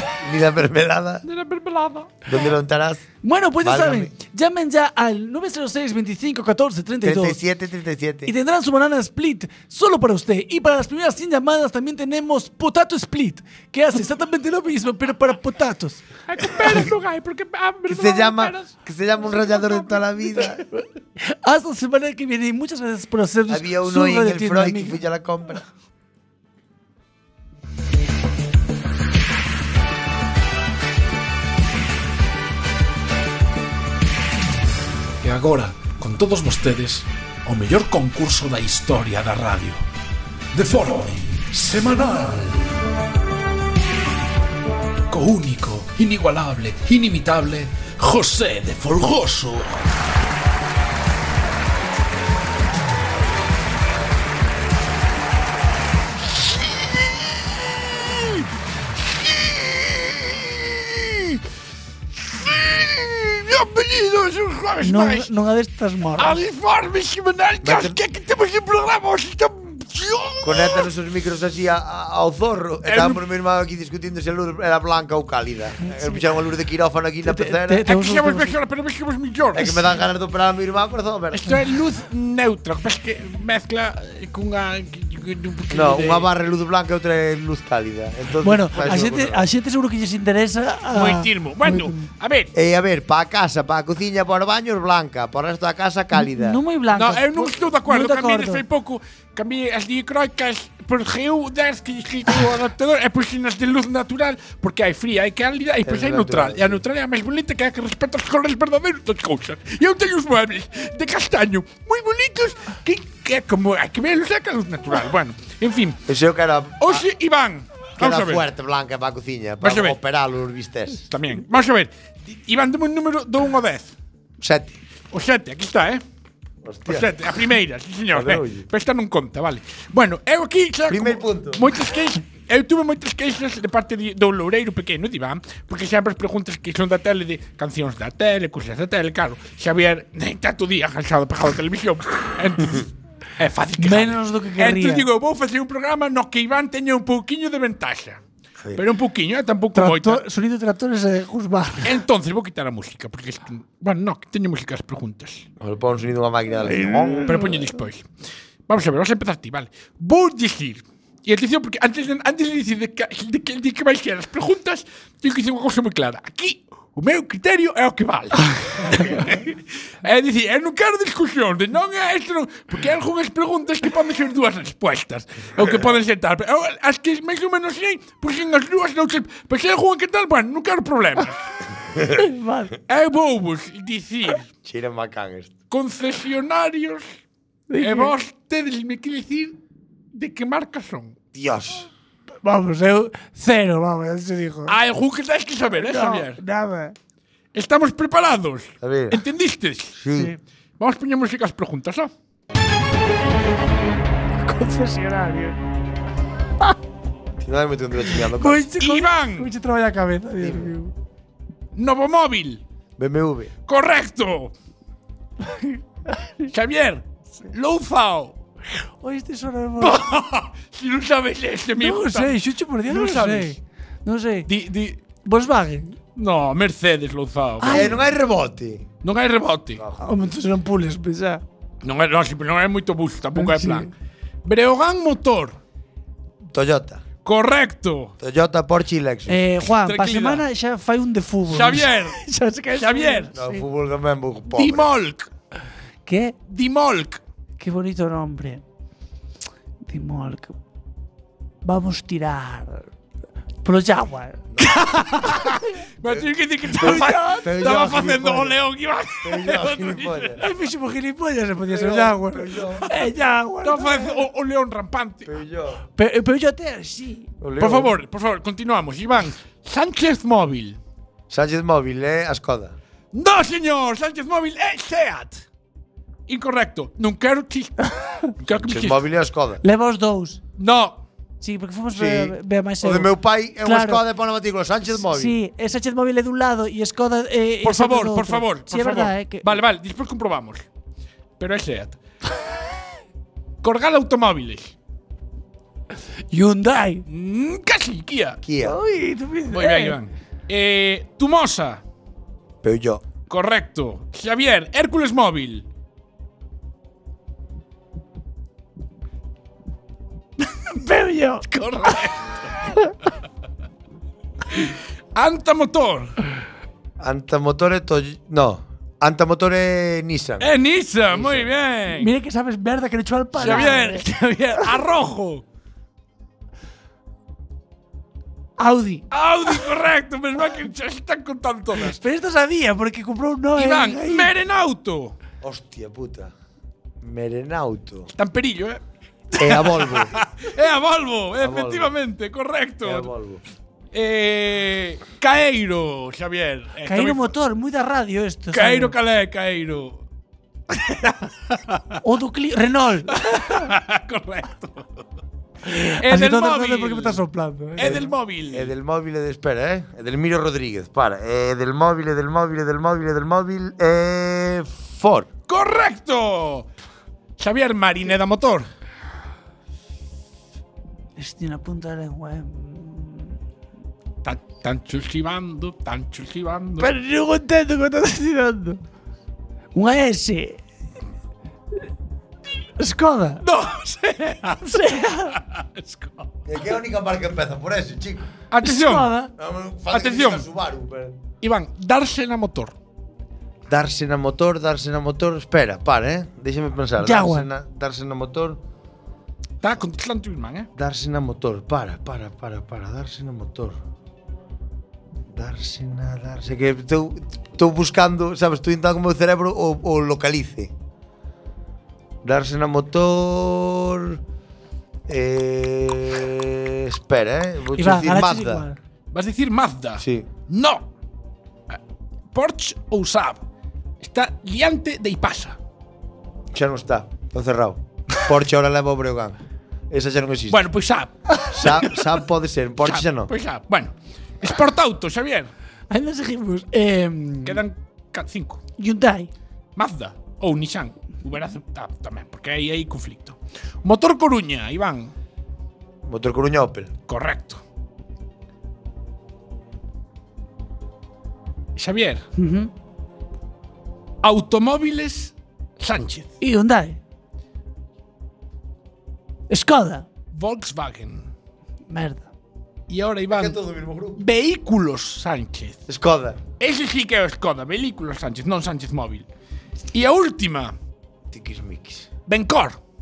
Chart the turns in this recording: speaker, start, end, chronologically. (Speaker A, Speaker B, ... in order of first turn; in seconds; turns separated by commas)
Speaker A: 0.2-1.2, Speaker B: 1.2-2.3, Speaker A: 2.3-3.1, Speaker C: 3.2-7.4, Speaker A: 3.6-4.1, Speaker A: 7.0-8.3, Speaker C: 8.2-16.0, Speaker B: 16.3-18.7, Speaker A: 17.9-20.6, Speaker B: 19.2-20.0, Speaker C: 20.5-25.0, Speaker A: 23.5-25.6, Speaker B: 35.2-39.8, Speaker B: 40.5-42.6, Speaker B: 45.1-49.8, Speaker B: 58.0-58.4, Speaker B: 59.2-61.4, Speaker B: 62.2-65.3, Speaker C: 64.8-66.4, Speaker B: 66.2-70.9, Speaker A: 67.6-68.0, Speaker A: 70.4-77.8, Speaker B: 72.8-73.2, Speaker C: 77.2-78.5, Speaker B: 77.8-79.8, Speaker A: 79.5-81.5, Speaker B: 81.3-86.3, Speaker A: 85.7-89.5, Speaker C: 88.4-92.0, Speaker B: 90.9-92.5, Speaker A: 92.5-96.6, Speaker C: 96.1-98.6, Speaker B: 96.9-116.0, Speaker A: 105.8-106.8, Speaker A: 116.1-117.0, Speaker B: 116.8-118.4, Speaker A: 118.0-121.0, Speaker B: 119.6-120.0, Speaker B: 121.1-123.9, Speaker A: 124.4-124.8, Speaker B: 125.1-126.0, Speaker A: 126.6-127.1, Speaker B: 126.9-148.2, Speaker A: 128.1-128.7, Speaker A: 130.9-131.7, Speaker C: 143.8-145.1, Speaker B: 148.7-150.2, Speaker C: 149.7-151.9, Speaker B: 151.8-155.4, Speaker A: 155.6-157.4, Speaker C: 156.7-157.5, Speaker B: 157.2-158.1, Speaker B: 158.7-181.5, Speaker A: 175.6-175.9, Speaker C: 182.2-182.7, Speaker B: 182.9-184.5, Speaker A: 184.6-185.5, Speaker B: 185.7-187.0, Speaker C: 187.7-188.1, Speaker B: 187.8-189.6, Speaker B: 190.1-191.2, Speaker A: 191.3-191.9, Speaker C: 192.4-194.8, Speaker B: 194.7-196.4, Speaker C: 195.8-196.9, Speaker B: 197.5-200.0, Speaker A: 198.8-199.2, Speaker A: 199.9-200.3, Speaker C: 200.1-200.4, Speaker B: 200.8-202.1, Speaker C: 204.4-205.6, Speaker A: 207.4-208.7, Speaker C: 208.1-210.9, Speaker B: 208.8-209.5, Speaker A: 210.4-210.7, Speaker B: 211.7-212.6, Speaker A: 213.0-213.5, Speaker B: 213.7-214.5, Speaker C: 215.4-216.5, Speaker B: 216.5-218.4, Speaker C: 219.0-220.0, Speaker B: 219.8-223.6, Speaker C: 221.8-224.5, Speaker B: 224.4-225.0, Speaker C: 225.2-225.9, Speaker B: 226.2-228.0, Speaker C: 227.6-227.9, Speaker A: 227.7-228.9, Speaker B: 229.0-229.8, Speaker A: 229.8-230.3, Speaker C: 230.0-231.4, Speaker B: 231.8-233.9, Speaker C: 233.3-233.9, Speaker B: 234.4-235.6, Speaker A: 236.5-237.0, Speaker B: 237.2-238.1, Speaker A: 238.2-239.4, Speaker C: 239.3-243.6, Speaker B: 239.7-240.4, Speaker B: 241.5-242.2, Speaker B: 242.7-243.3, Speaker A: 243.3-244.9, Speaker B: 244.5-245.3, Speaker C: 246.1-246.4, Speaker B: 246.5-247.2, Speaker C: 247.6-248.6, Speaker C: 249.8-250.6, Speaker C: 251.6-252.9, Speaker C: 253.6-254.4, Speaker A: 254.5-254.8, Speaker B: 254.6-260.5, Speaker C: 256.7-257.8, Speaker A: 256.8-258.6, Speaker A: 259.2-260.4, Speaker C: 260.4-264.2, Speaker A: 261.6-262.9, Speaker B: 263.6-265.3, Speaker A: 265.2-265.8, Speaker C: 266.0-267.3, Speaker A: 267.4-267.9, Speaker B: 267.6-270.8, Speaker A: 271.3-272.8, Speaker B: 273.1-275.4, Speaker B: 276.3-279.0, Speaker A: 278.5-279.6, Speaker C: 279.6-280.4, Speaker B: 280.6-281.0, Speaker C: 281.4-284.0, Speaker A: 281.9-285.4, Speaker C: 285.1-289.6, Speaker B: 287.6-290.6, Speaker B: 291.4-292.0, Speaker B: 293.6-294.7, Speaker C: 296.3-297.0, Speaker B: 297.1-298.4, Speaker A: 298.4-298.8, Speaker C: 298.6-300.0, Speaker B: 299.5-301.8, Speaker A: 302.6-303.0, Speaker B: 303.3-305.6, Speaker C: 310.5-311.4, Speaker B: 311.5-312.5, Speaker B: 314.5-316.1, Speaker A: 317.0-320.5, Speaker B: 320.4-322.1, Speaker A: 321.1-321.5, Speaker C: 321.9-324.0, Speaker B: 323.4-325.4, Speaker A: 323.4-323.8, Speaker C: 328.6-329.1, Speaker B: 329.1-332.0, Speaker C: 331.8-334.3, Speaker B: 333.6-335.1, Speaker A: 335.4-336.3, Speaker A: 337.0-338.1, Speaker B: 338.1-338.8, Speaker B: 339.3-343.1, Speaker A: 339.4-340.1, Speaker A: 341.4-341.9, Speaker A: 342.8-343.4, Speaker B: 343.9-347.3, Speaker C: 346.8-348.9, Speaker B: 348.5-350.0, Speaker B: 350.8-351.8, Speaker C: 352.0-353.7, Speaker B: 353.1-355.0, Speaker C: 355.6-358.1, Speaker B: 355.8-357.2, Speaker B: 357.8-358.7, Speaker A: 357.8-365.3, Speaker B: 365.5-366.7, Speaker B: 367.4-368.7, Speaker C: 371.2-373.3, Speaker B: 374.2-376.9, Speaker C: 376.8-378.8, Speaker C: 379.7-380.6, Speaker C: 382.8-383.4, Speaker B: 383.4-386.3, Speaker C: 384.6-385.4, Speaker A: 386.4-388.3, Speaker B: 388.5-389.1, Speaker C: 388.6-389.3, Speaker A: 389.4-391.2, Speaker B: 389.9-390.5, Speaker B: 391.4-392.7, Speaker A: 393.7-398.6, Speaker C: 397.0-397.5, Speaker B: 399.6-400.7, Speaker A: 400.8-403.8, Speaker A: 405.3-410.7, Speaker A: 412.2-414.2, Speaker A: 415.1-418.6, Speaker C: 417.8-418.8, Speaker B: 419.1-420.9, Speaker A: 420.0-420.3, Speaker B: 422.3-423.4, Speaker B: 424.0-425.6, Speaker A: 426.5-429.4, Speaker A: 429.9-430.6, Speaker B: 430.5-432.0, Speaker A: 431.5-433.3, Speaker B: 432.8-435.5, Speaker C: 435.9-437.6, Speaker B: 437.4-438.6, Speaker C: 438.8-439.3, Speaker B: 439.8-445.1, Speaker A: 446.0-446.9, Speaker B: 447.1-447.6, Speaker B: 451.8-452.2, Speaker C: 452.4-452.7, Speaker B: 454.2-456.3, Speaker C: 456.4-457.0, Speaker C: 459.5-460.1, Speaker B: 460.3-461.3, Speaker C: 461.9-462.3, Speaker B: 462.9-463.6, Speaker A: 463.3-464.2, Speaker B: 464.1-465.8, Speaker A: 465.9-466.4, Speaker B: 466.6-469.3, Speaker B: 469.9-470.7, Speaker A: 471.3-472.1, Speaker B: 472.3-472.8